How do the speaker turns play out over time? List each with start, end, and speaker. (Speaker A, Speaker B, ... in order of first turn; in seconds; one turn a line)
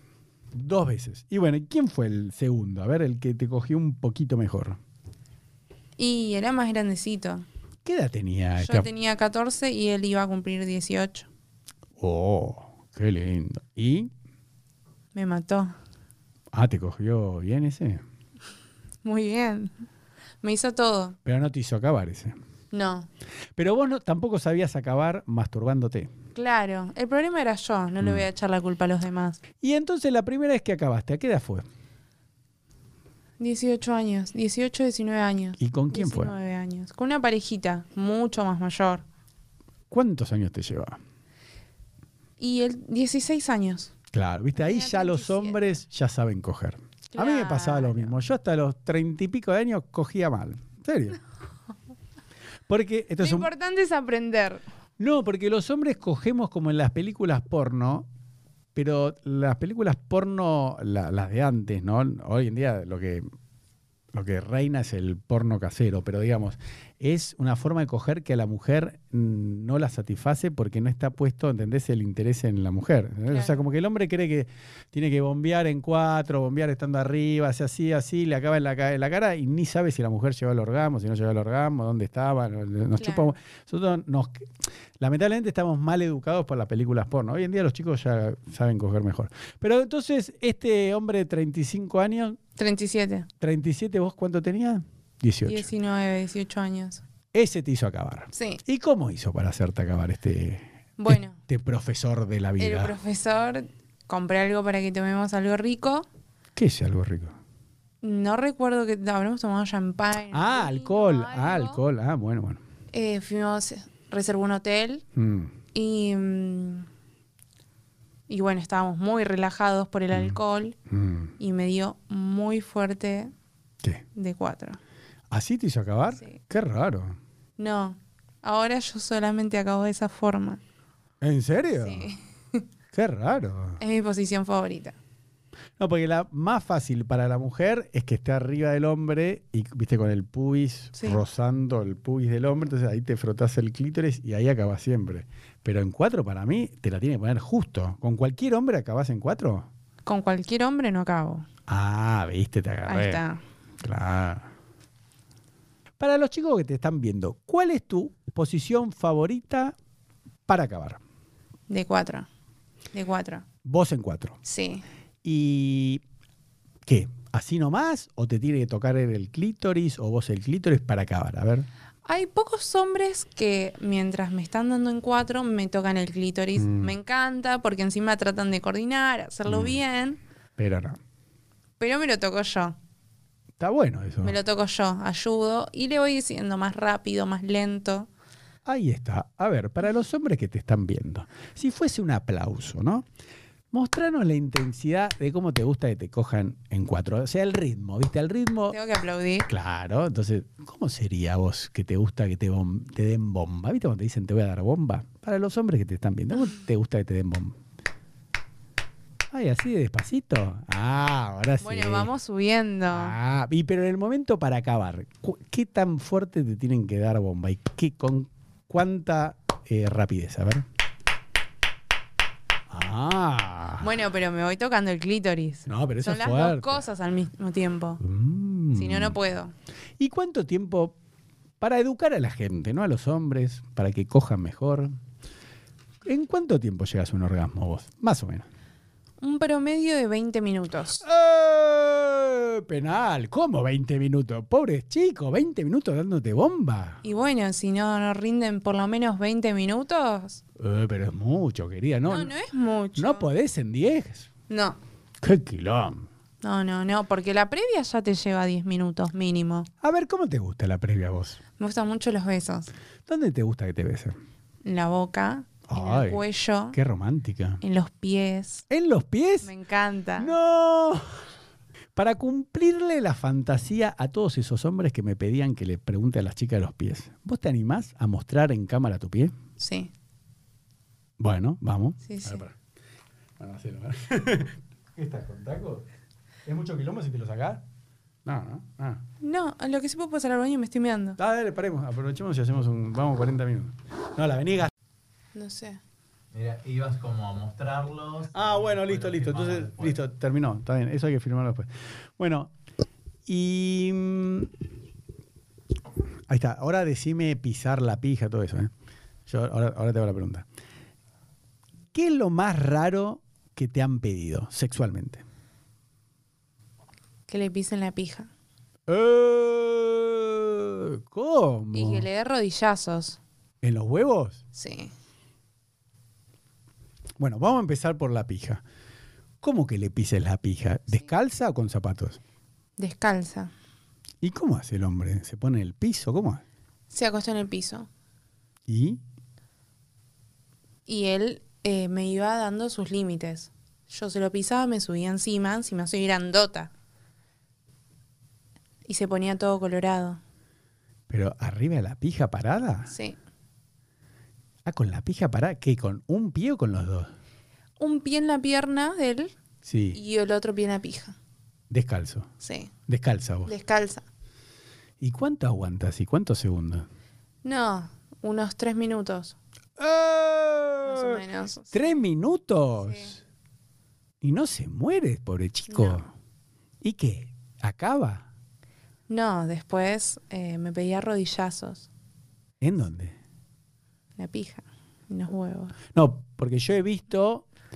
Speaker A: 0.5-4.8
Speaker B: 6.0-7.4
Speaker A: 7.8-8.9
Speaker B: 8.6-11.3
Speaker A: 12.0-14.1
Speaker B: 15.1-15.7
Speaker A: 16.5-18.0
Speaker B: 19.0-19.7
Speaker B: 20.4-21.2
Speaker A: 21.2-22.3
Speaker B: 22.7-23.1
Speaker A: 23.6-26.1
Speaker B: 26.3-29.4
Speaker A: 28.0-28.2
Speaker A: 29.6-31.6
Speaker B: 33.4-39.0
Speaker A: 35.6-36.3
Speaker A: 39.9-41.0
Speaker B: 42.4-43.9
Speaker A: 44.1-51.2
Speaker B: 44.5-45.6
Speaker B: 47.1-48.1
Speaker A: 52.7-53.5
Speaker B: 53.2-54.6
Speaker A: 55.0-58.0
Speaker A: 58.7-63.2
Speaker A: 64.1-92.4
Speaker B: 73.3-73.6
Speaker B: 83.0-83.3
Speaker B: 92.6-93.3
Speaker A: 93.4-95.7
Speaker B: 95.5-97.0
Speaker A: 97.3-103.0
Speaker B: 98.3-98.6
Speaker B: 101.0-101.4
Speaker B: 102.6-106.0
Speaker A: 106.5-107.3
Speaker B: 108.0-111.8
Speaker A: 110.3-112.6
Speaker B: 112.9-115.0
Speaker A: 115.1-115.5
Speaker B: 115.7-116.9
Speaker B: 118.3-120.8
Speaker A: 120.1-121.3
Speaker B: 121.4-123.3
Speaker B: 124.1-124.8
Speaker A: 125.3-127.2
Speaker B: 127.6-130.6
Speaker A: 131.2-132.1
Speaker B: 131.8-132.6
Speaker A: 132.9-133.8
Speaker B: 133.8-134.9
Speaker A: 135.8-149.7
Speaker B: 140.9-141.2
Speaker B: 150.0-151.5
Speaker A: 151.7-153.2
Speaker B: 152.9-153.4
Speaker A: 153.8-154.5
Speaker A: 156.0-159.7
Speaker A: 160.5-161.0
Speaker B: 161.7-162.3
Speaker B: 162.9-163.4
Speaker A: 163.6-164.4
Speaker B: 164.4-164.8
Speaker A: 165.2-166.0
Speaker A: 166.8-171.7
Speaker B: 172.0-180.2
Speaker A: 176.6-176.9
Speaker A: 179.5-179.8
Speaker A: 180.6-181.0
Speaker B: 181.8-182.8
Speaker A: 183.6-184.4
Speaker B: 184.2-188.1
Speaker A: 188.6-193.1
Speaker A: 193.7-198.8
Speaker B: 198.7-199.5
Speaker A: 199.5-207.6
Speaker A: 209.3-212.1
Speaker B: 211.6-213.2
Speaker A: 212.9-220.7
Speaker A: 222.7-223.9
Speaker B: 223.8-228.0
Speaker A: 225.7-226.8
Speaker A: 228.0-229.2
Speaker B: 228.7-229.5
Speaker A: 230.0-230.9
Speaker A: 231.6-234.9
Speaker A: 236.0-238.5
Speaker B: 239.2-241.0
Speaker A: 241.0-247.0
Speaker B: 247.0-250.4
Speaker A: 250.6-252.3
Speaker B: 252.1-253.3
Speaker A: 252.9-254.3
Speaker B: 254.5-254.8
Speaker A: 255.2-256.1
Speaker B: 256.4-259.7
Speaker A: 259.8-261.4
Speaker B: 261.6-262.7
Speaker A: 263.1-264.1
Speaker B: 264.6-266.8
Speaker A: 265.7-267.6
Speaker B: 267.6-268.6
Speaker A: 268.7-269.5
Speaker B: 269.4-270.3
Speaker A: 270.2-271.2
Speaker A: 271.9-279.3
Speaker B: 279.6-279.9
Speaker A: 281.2-282.5
Speaker B: 282.0-282.4
Speaker A: 283.4-285.9
Speaker A: 286.4-287.6
Speaker A: 288.2-289.0
Speaker B: 289.2-291.2
Speaker A: 291.2-294.7
Speaker B: 295.3-295.8
Speaker C: 296.3-300.0
Speaker A: 298.3-302.5
Speaker A: 303.2-304.5
Speaker A: 306.3-308.7
Speaker A: 309.3-310.4
Speaker A: 311.9-315.2
Speaker B: 317.3-318.3
Speaker A: 318.9-322.1
Speaker B: 321.7-323.2
Speaker A: 323.6-324.4
Speaker B: 324.5-324.9
Speaker A: 327.2-328.6
Speaker A: 329.4-332.2
Speaker B: 332.8-333.5
Speaker A: 334.2-336.4
Speaker B: 336.9-337.9
Speaker A: 338.7-339.0
Speaker B: 340.9-346.7
Speaker B: 348.9-350.2
Speaker A: 351.1-352.9
Speaker B: 352.9-353.2
Speaker A: 354.6-357.1
Speaker B: 357.8-359.3
Speaker A: 359.6-360.0
Speaker B: 359.9-361.1
Speaker A: 361.7-362.3
Speaker B: 362.4-362.7
Speaker A: 362.9-363.5
Speaker B: 363.4-364.0
Speaker A: 365.0-366.9
Speaker B: 367.4-369.4
Speaker A: 369.8-373.2
Speaker B: 370.8-372.0
Speaker A: 374.2-376.1
Speaker B: 375.7-376.0
Speaker A: 376.8-378.2
Speaker B: 379.1-381.9
Speaker A: 382.6-383.1
Speaker B: 384.2-385.8
Speaker A: 385.9-387.4